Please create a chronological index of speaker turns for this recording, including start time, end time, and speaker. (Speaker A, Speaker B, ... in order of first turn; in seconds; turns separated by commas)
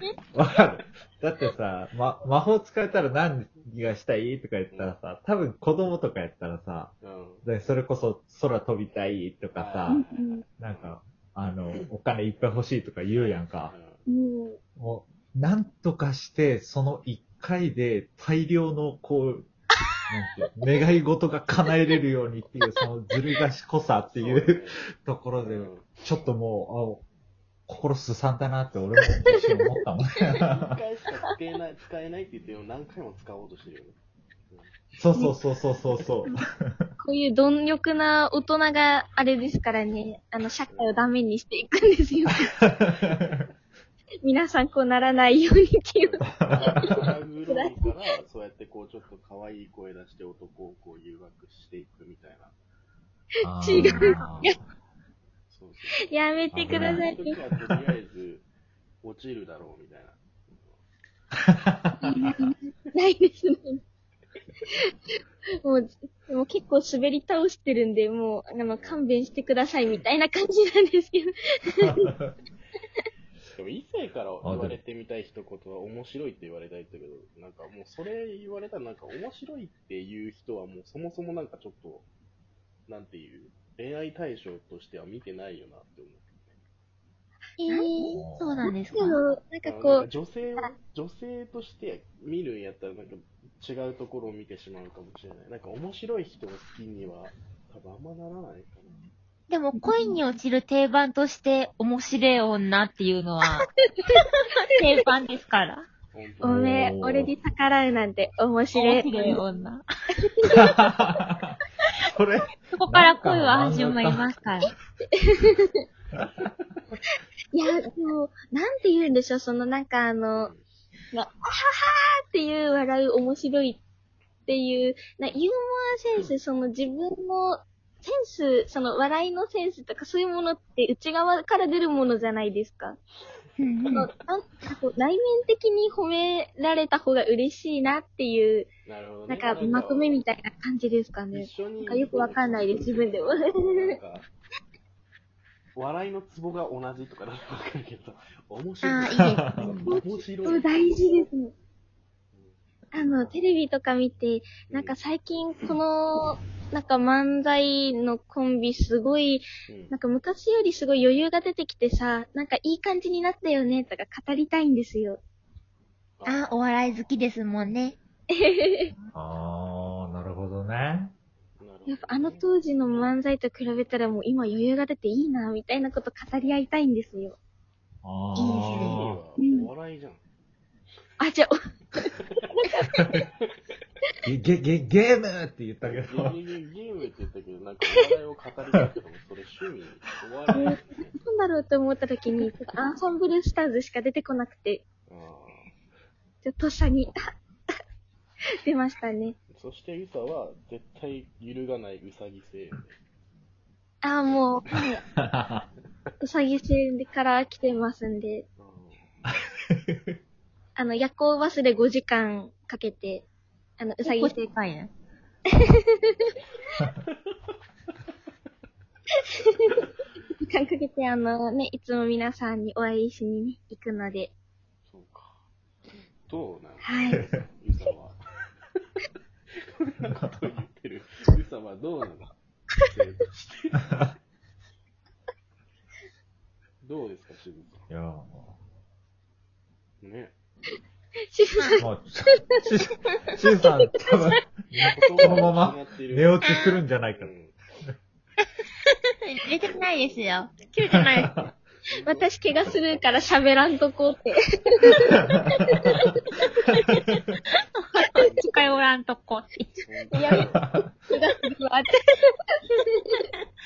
Speaker A: 0.3-10.0, Speaker B: 4.7-5.0, Speaker B: 7.0-7.5, Speaker B: 9.6-10.9, Speaker C: 9.9-10.4, Speaker A: 10.6-13.7, Speaker B: 13.1-14.0, Speaker C: 14.1-14.6, Speaker A: 14.8-19.5, Speaker A: 20.1-27.0, Speaker B: 24.1-24.8, Speaker B: 25.4-26.0, Speaker A: 27.7-30.8, Speaker C: 29.0-29.8, Speaker B: 30.4-34.0, Speaker A: 35.0-36.9, Speaker C: 37.0-42.6, Speaker B: 40.7-41.1, Speaker A: 43.0-43.4, Speaker C: 44.2-46.9, Speaker A: 46.4-47.0, Speaker B: 46.5-52.5, Speaker C: 47.5-47.9, Speaker A: 53.4-54.6, Speaker C: 53.5-54.6, Speaker B: 55.5-56.0, Speaker C: 56.1-57.4, Speaker A: 56.5-57.1, Speaker B: 56.7-58.5, Speaker B: 59.0-60.8, Speaker A: 61.5-62.5, Speaker C: 62.0-63.8, Speaker C: 65.6-72.1, Speaker B: 68.7-69.0, Speaker A: 71.8-72.3, Speaker B: 73.5-82.1, Speaker A: 74.4-74.8, Speaker B: 82.9-86.5, Speaker D: 87.6-89.2, Speaker A: 88.1-88.6, Speaker C: 88.8-90.1, Speaker B: 89.6-99.0, Speaker D: 99.5-103.7, Speaker C: 99.8-100.2, Speaker C: 104.0-104.4, Speaker D: 104.7-105.9, Speaker B: 106.1-106.7, Speaker C: 106.4-109.4, Speaker A: 106.4-107.3, Speaker D: 108.8-109.8, Speaker C: 110.2-110.9, Speaker A: 110.5-114.3, Speaker D: 112.7-114.7, Speaker C: 115.0-115.8, Speaker C: 117.5-120.5, Speaker B: 120.4-120.7, Speaker C: 121.1-123.8, Speaker C: 124.5-133.0, Speaker D: 133.6-134.1, Speaker C: 133.9-138.7, Speaker B: 138.9-140.2, Speaker C: 139.3-144.0, Speaker B: 141.3-144.3, Speaker B: 145.8-151.1, Speaker D: 148.8-150.0, Speaker C: 149.9-151.5, Speaker C: 152.9-165.2, Speaker B: 154.7-154.9, Speaker B: 159.7-160.0, Speaker B: 166.2-166.6, Speaker D: 166.3-168.0, Speaker C: 168.3-168.9, Speaker A: 169.1-171.1, Speaker B: 171.6-173.1, Speaker C: 171.9-177.4, Speaker A: 178.0-179.2, Speaker D: 178.4-179.0, Speaker B: 178.7-180.2, Speaker C: 179.4-179.7, Speaker C: 181.2-183.1, Speaker A: 184.2-186.4, Speaker B: 185.8-191.2, Speaker C: 190.5-194.8, Speaker B: 195.1-195.7, Speaker C: 196.4-197.1, Speaker C: 198.6-199.4, Speaker B: 199.5-203.0, Speaker C: 204.0-205.0, Speaker A: 205.2-205.7, Speaker C: 206.2-208.5, Speaker B: 208.6-209.1, Speaker A: 209.7-210.2, Speaker C: 210.8-213.3, Speaker C: 213.8-214.4, Speaker D: 214.0-214.9, Speaker C: 219.3-224.3, Speaker B: 224.9-225.4, Speaker B: 226.3-228.2, Speaker C: 226.8-227.3, Speaker B: 229.7-232.3, Speaker B: 232.9-234.2, Speaker B: 236.8-237.9, Speaker A: 237.9-238.6, Speaker B: 240.0-240.3, Speaker C: 241.3-241.9, Speaker A: 241.8-247.3, Speaker C: 244.0-244.3, Speaker B: 244.8-246.3, Speaker D: 246.4-246.8, Speaker B: 247.1-247.6, Speaker D: 249.2-251.4, Speaker B: 249.6-250.8, Speaker B: 251.9-253.1, Speaker C: 252.1-257.1, Speaker A: 257.0-257.4, Speaker D: 257.9-259.9, Speaker B: 258.1-258.9, Speaker B: 259.9-260.6, Speaker C: 260.1-262.0, Speaker A: 260.6-260.9, Speaker C: 262.5-263.3